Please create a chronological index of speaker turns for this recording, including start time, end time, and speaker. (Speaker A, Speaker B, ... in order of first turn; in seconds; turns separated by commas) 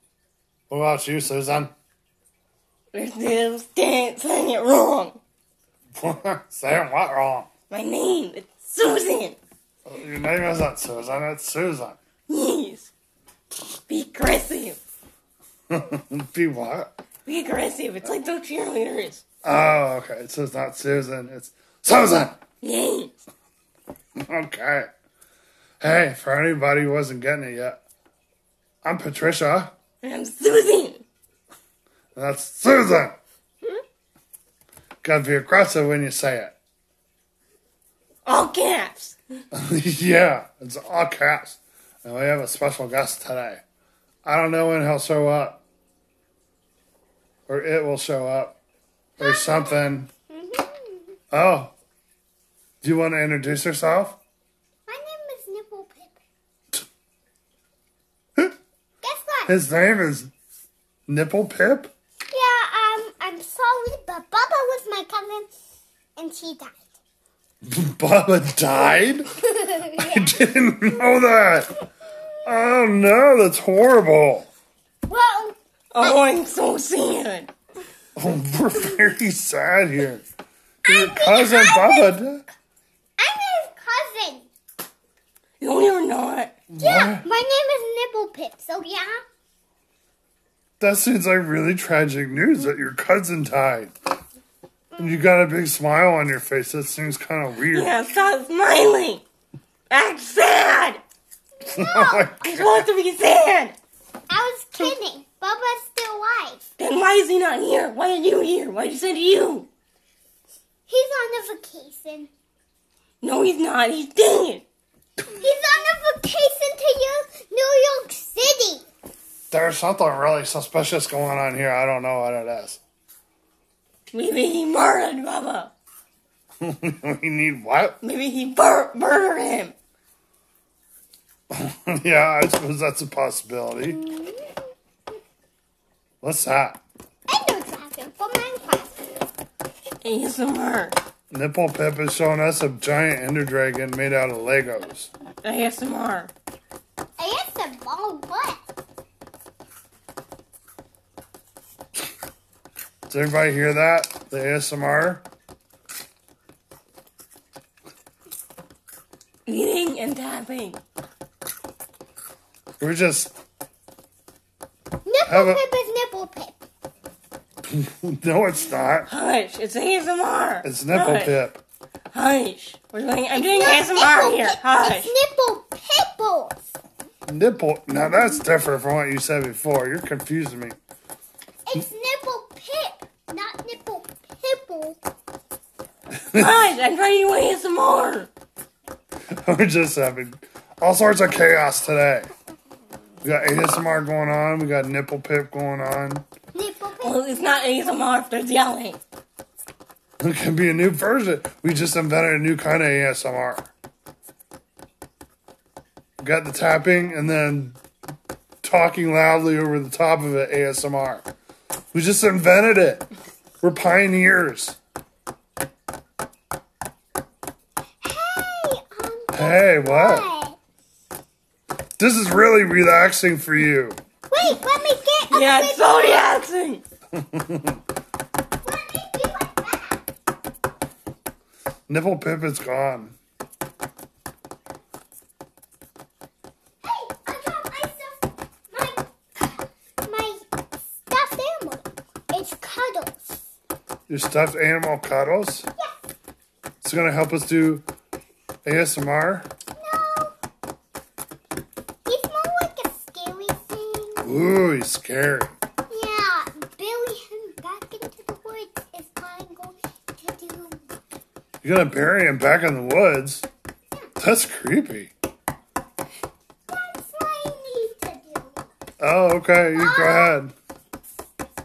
Speaker A: 0.7-1.7, Speaker B: 2.9-5.2, Speaker A: 6.0-7.5, Speaker B: 7.7-9.4, Speaker A: 9.8-12.0, Speaker B: 12.3-12.9, Speaker B: 13.9-14.8, Speaker A: 15.7-16.9, Speaker B: 17.2-19.2, Speaker A: 19.4-22.4, Speaker B: 22.6-23.1, Speaker A: 24.2-24.9, Speaker A: 25.8-27.8, Speaker A: 28.8-29.7, Speaker B: 30.0-31.0, Speaker A: 32.1-33.2, Speaker A: 35.0-36.5, Speaker B: 38.2-39.2, Speaker A: 39.5-43.6, Speaker A: 44.2-45.6, Speaker A: 47.5-48.6, Speaker A: 49.2-50.1, Speaker C: 49.2-51.1, Speaker A: 51.3-51.7, Speaker A: 52.8-54.2, Speaker C: 54.9-56.2, Speaker C: 59.0-59.5, Speaker A: 59.5-60.3, Speaker A: 61.1-61.9, Speaker C: 62.3-65.5, Speaker C: 66.2-66.8, Speaker A: 67.6-69.3, Speaker C: 69.5-70.4, Speaker A: 69.9-71.7, Speaker A: 72.4-74.5, Speaker C: 75.1-76.2, Speaker B: 75.9-77.5, Speaker A: 78.2-80.2, Speaker C: 80.8-82.2, Speaker A: 80.8-82.4, Speaker C: 83.2-84.5, Speaker B: 85.6-86.5, Speaker A: 86.7-87.3, Speaker C: 86.8-89.2, Speaker A: 90.8-93.9, Speaker C: 94.9-95.2, Speaker A: 95.0-98.0, Speaker B: 97.6-99.2, Speaker B: 99.9-101.0, Speaker C: 101.6-102.4, Speaker A: 101.7-102.9, Speaker B: 102.4-103.8, Speaker C: 104.3-106.7, Speaker B: 106.8-109.7, Speaker C: 110.9-112.3, Speaker B: 113.2-114.6, Speaker C: 115.4-118.8, Speaker A: 119.5-122.8, Speaker B: 124.1-125.7, Speaker A: 126.6-128.0, Speaker B: 128.0-129.7, Speaker A: 131.5-134.0, Speaker C: 133.8-134.6, Speaker A: 136.2-136.8, Speaker C: 137.3-139.1, Speaker B: 140.0-141.0, Speaker A: 141.3-145.1, Speaker B: 145.4-146.3, Speaker C: 147.2-148.6, Speaker A: 153.1-155.2, Speaker B: 159.4-160.8, Speaker A: 162.8-163.3, Speaker C: 165.0-166.6, Speaker A: 165.2-165.6, Speaker A: 167.7-169.1, Speaker B: 169.1-171.3, Speaker A: 170.6-171.6, Speaker B: 172.1-175.1, Speaker C: 173.3-176.6, Speaker A: 177.3-180.8, Speaker C: 181.7-185.0, Speaker B: 186.3-188.3, Speaker A: 189.3-192.3, Speaker A: 193.2-196.2, Speaker C: 196.5-197.7, Speaker B: 197.0-199.0, Speaker A: 200.2-203.7, Speaker A: 206.2-207.8, Speaker A: 208.6-211.3, Speaker A: 211.9-213.1, Speaker A: 213.6-214.8, Speaker C: 218.0-220.6, Speaker A: 219.3-220.3, Speaker A: 222.0-224.0, Speaker C: 224.3-226.4, Speaker B: 225.3-226.8, Speaker A: 227.1-227.8, Speaker C: 228.6-230.0, Speaker A: 231.9-233.2, Speaker C: 236.8-240.4, Speaker C: 240.9-243.4, Speaker A: 244.1-245.7, Speaker A: 246.8-247.8, Speaker A: 248.6-249.5, Speaker C: 249.8-250.3, Speaker C: 252.1-254.2, Speaker A: 254.2-255.5, Speaker C: 255.9-260.8, Speaker A: 261.6-263.5, Speaker A: 264.2-265.1, Speaker C: 266.7-268.6, Speaker A: 269.0-270.5, Speaker C: 269.7-270.4